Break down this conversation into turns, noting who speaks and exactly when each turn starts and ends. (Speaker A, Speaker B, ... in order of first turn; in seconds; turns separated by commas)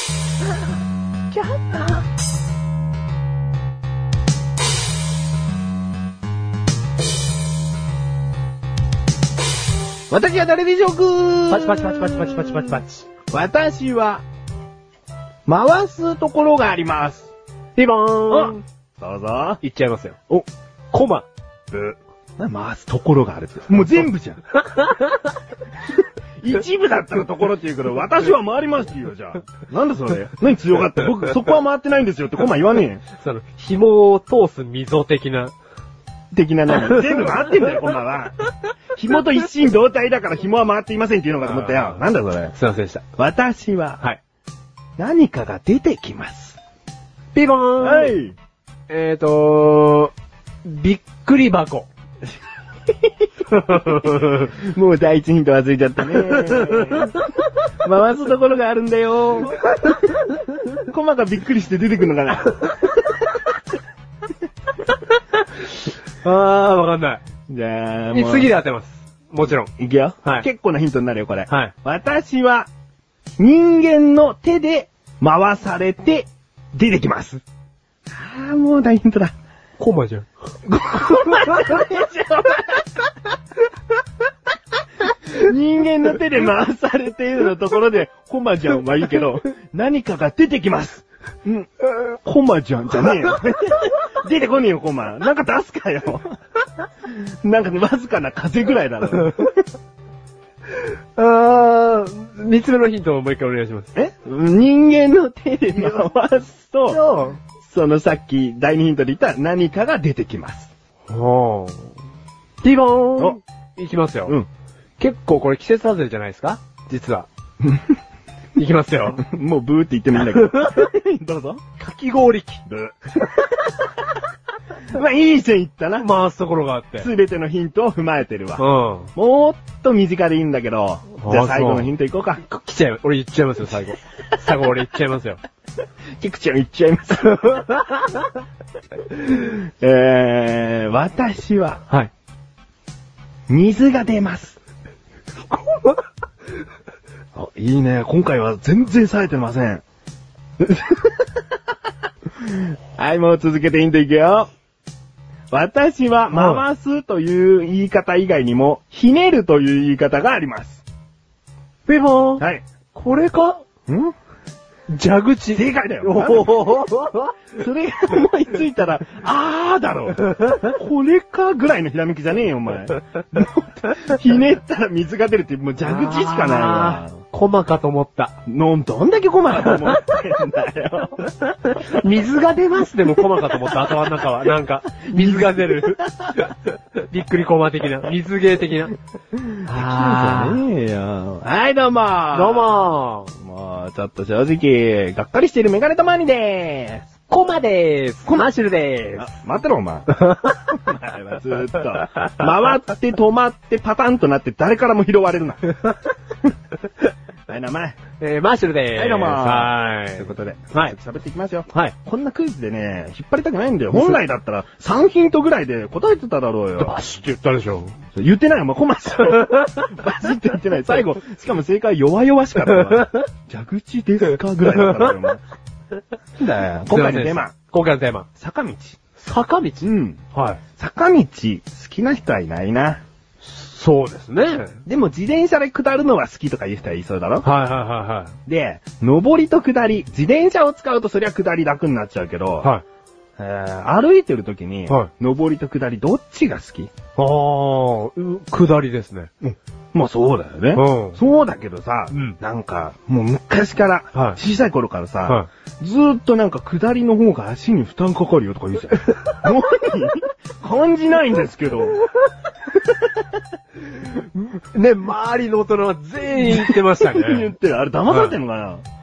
Speaker A: 1.3-2.0, Speaker B: 10.1-14.2, Speaker A: 11.5-13.1, Speaker B: 15.5-17.3, Speaker A: 17.8-18.6, Speaker B: 18.3-19.6, Speaker A: 19.6-20.4, Speaker A: 20.9-21.3, Speaker B: 21.7-24.4, Speaker A: 24.7-25.3, Speaker B: 26.4-33.0, Speaker A: 33.2-35.5, Speaker B: 36.3-42.5, Speaker A: 36.8-37.6, Speaker A: 41.4-43.0, Speaker B: 43.2-44.0, Speaker B: 45.0-46.6, Speaker A: 47.3-48.2, Speaker B: 47.8-48.4, Speaker A: 48.9-50.1, Speaker A: 50.6-51.9, Speaker A: 53.5-54.5, Speaker B: 53.7-57.2, Speaker A: 56.1-57.1, Speaker B: 57.8-60.2, Speaker B: 60.7-63.5, Speaker A: 66.2-67.2, Speaker B: 67.5-68.5, Speaker A: 68.1-69.7, Speaker B: 69.8-72.7, Speaker B: 73.4-77.4, Speaker B: 78.1-79.3, Speaker A: 79.8-80.3, Speaker B: 80.7-83.1, Speaker A: 81.4-81.7, Speaker B: 85.1-96.4, Speaker B: 97.1-99.5, Speaker A: 100.8-103.9, Speaker B: 104.0-107.0, Speaker A: 105.8-106.1, Speaker A: 106.9-107.4, Speaker B: 107.6-110.7, Speaker A: 111.1-111.9, Speaker A: 112.6-114.4, Speaker A: 115.0-117.3, Speaker A: 118.6-119.2, Speaker B: 119.2-121.6, Speaker A: 120.3-120.8, Speaker A: 121.8-122.6, Speaker B: 122.7-123.3, Speaker B: 124.9-126.2, Speaker A: 126.0-127.1, Speaker B: 127.0-132.4, Speaker A: 128.6-129.1, Speaker A: 131.2-135.4, Speaker B: 136.2-137.6, Speaker A: 137.3-138.2, Speaker B: 139.1-141.8, Speaker B: 143.5-144.6, Speaker A: 145.5-146.0, Speaker B: 147.3-149.8, Speaker B: 150.6-151.1, Speaker B: 152.4-154.5, Speaker B: 155.5-160.8, Speaker A: 156.3-156.6, Speaker A: 161.9-162.4, Speaker A: 162.9-163.6, Speaker B: 163.9-164.1, Speaker A: 164.9-167.3, Speaker B: 165.5-166.8, Speaker B: 167.6-177.2, Speaker A: 175.8-178.3, Speaker B: 178.5-181.3, Speaker A: 179.7-180.0, Speaker A: 181.6-189.0, Speaker B: 185.0-186.4, Speaker B: 189.5-192.8, Speaker A: 189.7-190.6, Speaker A: 192.3-193.3, Speaker B: 193.4-197.1, Speaker A: 197.3-199.3, Speaker B: 199.2-200.1, Speaker A: 200.1-200.7, Speaker B: 200.7-205.8, Speaker B: 207.5-208.0, Speaker A: 208.2-210.9, Speaker B: 208.9-217.0, Speaker A: 216.8-218.0, Speaker B: 218.1-225.4, Speaker A: 219.3-219.8, Speaker A: 222.8-223.2, Speaker A: 224.7-225.1, Speaker B: 226.4-227.5, Speaker A: 226.9-228.3, Speaker B: 228.4-229.0, Speaker A: 229.2-230.6, Speaker B: 229.8-230.2, Speaker B: 230.8-233.0, Speaker A: 233.4-234.8, Speaker B: 234.9-237.5, Speaker A: 237.4-238.3, Speaker B: 238.5-242.7, Speaker B: 243.4-246.9, Speaker A: 247.2-249.6, Speaker B: 249.9-262.0, Speaker A: 250.7-251.2, Speaker A: 252.1-252.4, Speaker A: 263.9-267.5, Speaker B: 266.4-268.8, Speaker A: 268.1-268.4